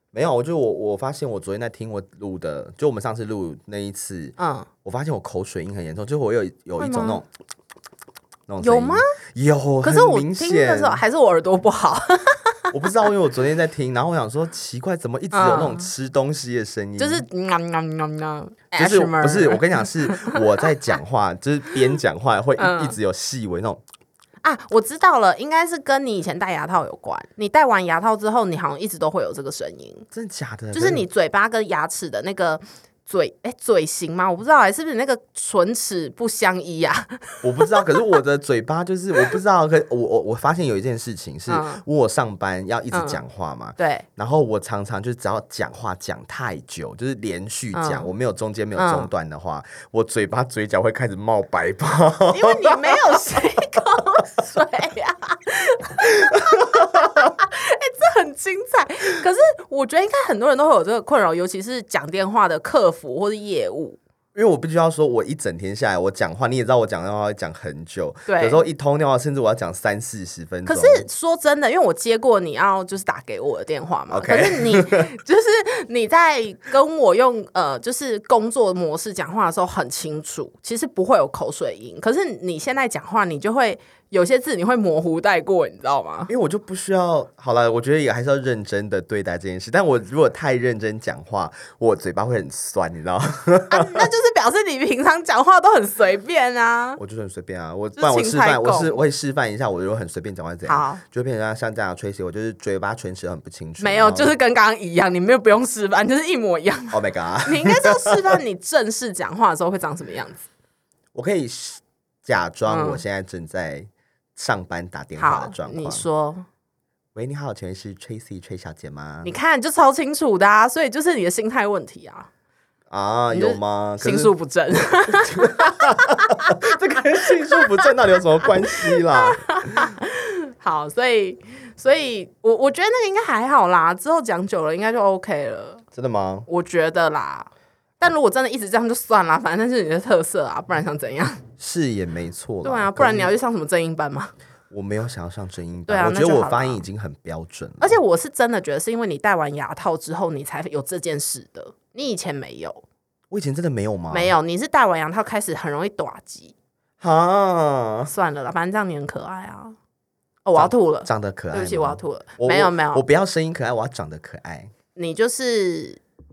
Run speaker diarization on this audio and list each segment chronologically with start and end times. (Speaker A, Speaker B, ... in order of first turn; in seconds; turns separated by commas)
Speaker A: 0.1-7.3, Speaker B: 4.4-4.7, Speaker B: 6.8-7.2, Speaker A: 8.5-11.0, Speaker B: 8.6-9.0, Speaker B: 9.8-12.7, Speaker A: 12.7-17.2, Speaker B: 15.3-15.9, Speaker B: 17.0-20.4, Speaker A: 18.7-23.8, Speaker B: 22.6-23.0, Speaker B: 24.4-30.1, Speaker A: 30.1-31.1, Speaker B: 30.7-37.8, Speaker A: 37.4-53.0, Speaker B: 41.5-41.8, Speaker B: 42.9-43.2, Speaker B: 43.8-44.1, Speaker B: 47.7-48.1, Speaker B: 48.8-49.1, Speaker B: 52.3-64.0, Speaker A: 64.3-71.1, Speaker B: 68.3-68.6, Speaker B: 70.7-86.3, Speaker A: 74.1-75.1, Speaker A: 86.3-94.1, Speaker B: 93.7-97.0, Speaker A: 97.0-104.4, Speaker B: 98.0-98.9, Speaker B: 100.7-101.0, Speaker B: 103.8-110.5, Speaker A: 106.9-108.4, Speaker A: 111.1-116.0, Speaker B: 112.7-113.0, Speaker B: 115.2-116.5, Speaker A: 117.2-119.3, Speaker B: 119.2-122.3, Speaker A: 122.9-124.3, Speaker B: 123.3-126.6, Speaker A: 125.2-129.4, Speaker B: 128.7-135.8, Speaker A: 135.9-136.5, Speaker B: 136.5-137.5, Speaker B: 138.0-141.4, Speaker A: 141.6-143.4, Speaker B: 142.6-144.3, Speaker A: 144.7-148.0, Speaker B: 145.9-146.8, Speaker B: 147.8-152.8, Speaker A: 153.3-154.3, Speaker B: 154.1-156.6, Speaker A: 157.0-158.1, Speaker B: 158.1-159.8, Speaker B: 160.4-163.0, Speaker A: 160.6-164.7, Speaker B: 164.9-166.0